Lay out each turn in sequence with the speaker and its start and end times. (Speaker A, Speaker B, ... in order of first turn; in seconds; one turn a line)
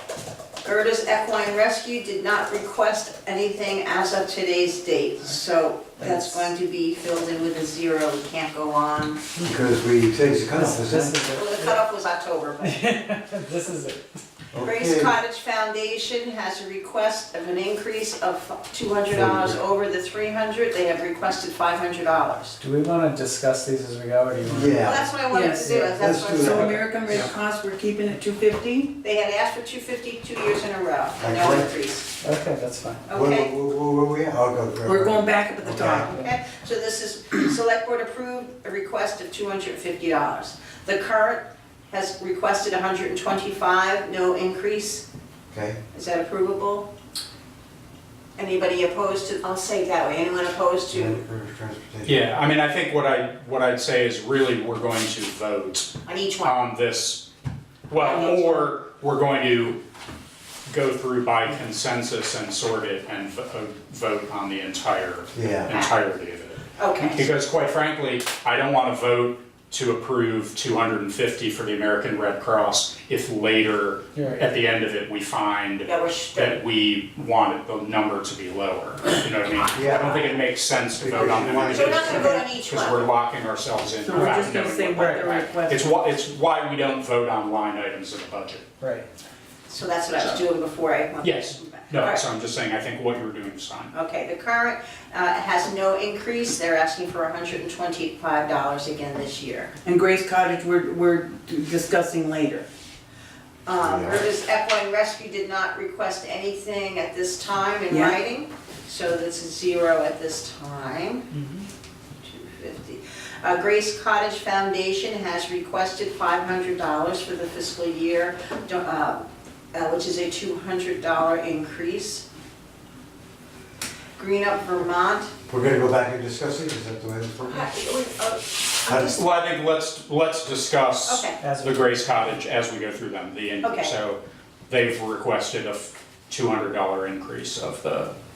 Speaker A: 0.6-9.2
Speaker B: 6.0-6.5
Speaker C: 9.4-11.2
Speaker B: 10.5-11.8
Speaker A: 11.3-12.8
Speaker B: 12.6-14.2
Speaker C: 14.5-15.1
Speaker A: 14.6-22.6
Speaker C: 19.1-19.6
Speaker B: 22.6-24.9
Speaker C: 24.5-25.1
Speaker A: 24.8-26.8
Speaker D: 25.3-25.7
Speaker C: 25.9-26.8
Speaker D: 26.2-28.9
Speaker A: 29.0-32.1
Speaker C: 31.2-31.7
Speaker B: 32.2-33.0
Speaker A: 33.1-33.5
Speaker C: 33.1-36.1
Speaker D: 34.8-36.3
Speaker A: 36.1-45.0
Speaker C: 45.5-45.8
Speaker A: 45.9-46.9
Speaker A: 48.4-51.2
Speaker C: 50.9-52.2
Speaker E: 52.0-57.3
Speaker A: 56.0-56.5
Speaker E: 57.9-59.8
Speaker D: 58.0-58.7
Speaker E: 60.7-88.7
Speaker C: 65.3-65.7
Speaker A: 65.7-66.0
Speaker A: 66.8-67.2
Speaker B: 74.1-74.5
Speaker A: 75.8-76.6
Speaker C: 79.7-80.4
Speaker C: 80.9-82.4
Speaker A: 81.6-83.1
Speaker D: 84.0-86.1
Speaker B: 84.9-85.5
Speaker B: 88.8-89.0
Speaker A: 89.7-92.2
Speaker E: 90.2-90.4
Speaker E: 91.2-93.9
Speaker A: 93.9-99.7
Speaker D: 99.8-102.7
Speaker A: 103.7-111.3
Speaker C: 103.8-104.2
Speaker D: 107.9-108.2
Speaker B: 111.3-111.7
Speaker A: 112.2-122.2
Speaker A: 124.2-125.3
Speaker C: 125.5-127.7
Speaker A: 127.4-129.2
Speaker C: 128.8-129.1
Speaker E: 129.0-138.1
Speaker A: 131.0-131.4
Speaker B: 131.4-132.3
Speaker A: 133.6-134.0